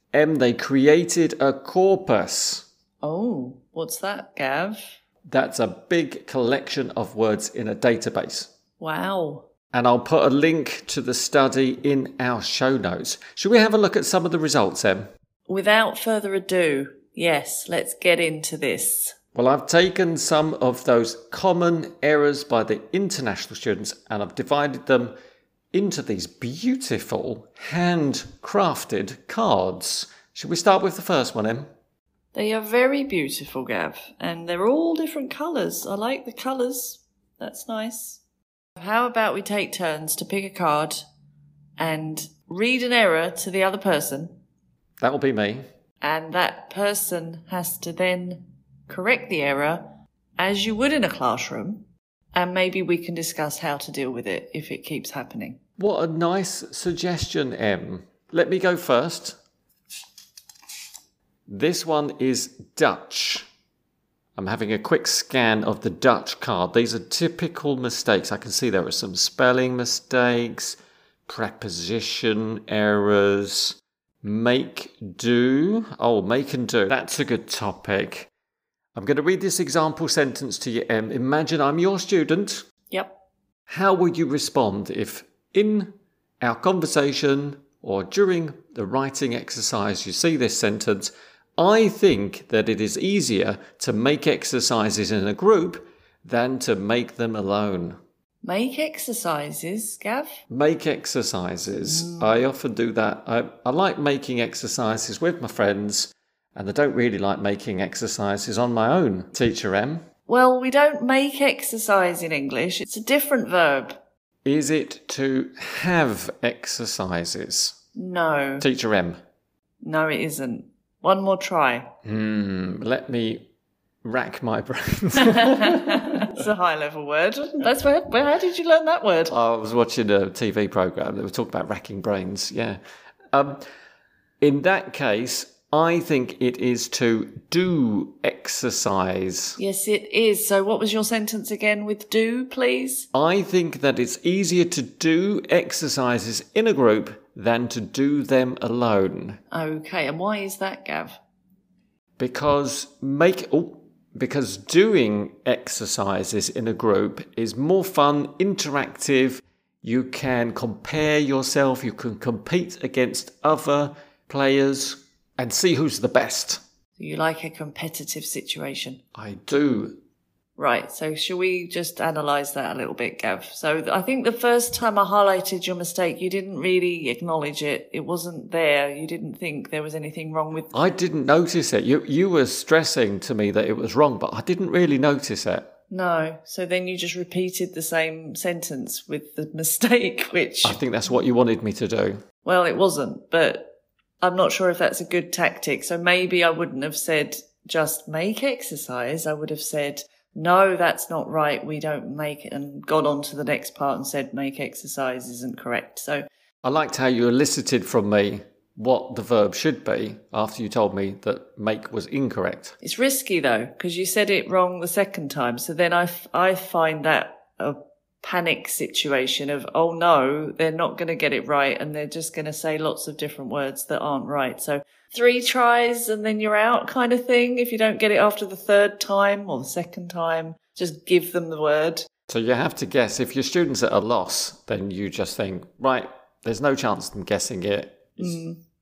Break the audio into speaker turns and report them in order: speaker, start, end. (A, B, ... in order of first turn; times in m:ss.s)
0:00.1-0:02.6 A
0:03.0-0:04.9 B
0:05.2-0:08.5 A
0:08.8-0:09.4 B
0:09.7-0:15.1 A
0:15.5-0:19.2 B
0:19.3-0:25.1 A
0:25.7-0:31.7 A
0:32.3-0:38.2 B
0:38.8-0:41.0 B
0:41.8-0:44.4 B
0:45.0-0:45.6 A
0:46.0-0:55.6 B
0:55.8-0:59.4 A
1:01.5-1:03.5 A
1:04.4-1:18.3 A
1:18.9-1:22.6 A
1:22.9-1:23.2 B
1:23.7-1:38.0 A
1:38.4-1:40.4 B
1:40.5-1:50.0 A
1:41.8-1:42.3 B
1:50.3-1:54.0 B
1:54.4-1:57.8 A
1:57.9-1:58.6 B
1:58.6-1:59.2 A
1:59.8-2:01.9 B
2:02.0-2:03.5 A
2:04.0-2:06.4 A
2:05.2-2:09.3 B
2:09.3-2:12.8 A
2:13.3-2:13.6 A
2:14.4-2:19.6 A
2:19.6-2:23.1 B
2:23.1-2:29.4 A
2:29.5-2:31.2 B
2:32.2-2:46.6 A
2:47.0-2:49.0 B
2:49.1-2:50.0 A
2:50.6-3:00.7 B
3:00.7-3:05.7 A
3:05.9-3:10.8 B
3:10.6-3:12.2 A
3:12.4-3:13.7 B
3:14.2-3:26.2 B
3:26.6-3:32.7 A
3:32.8-3:52.1 B
3:52.3-3:58.4 A
3:58.2-3:58.6 B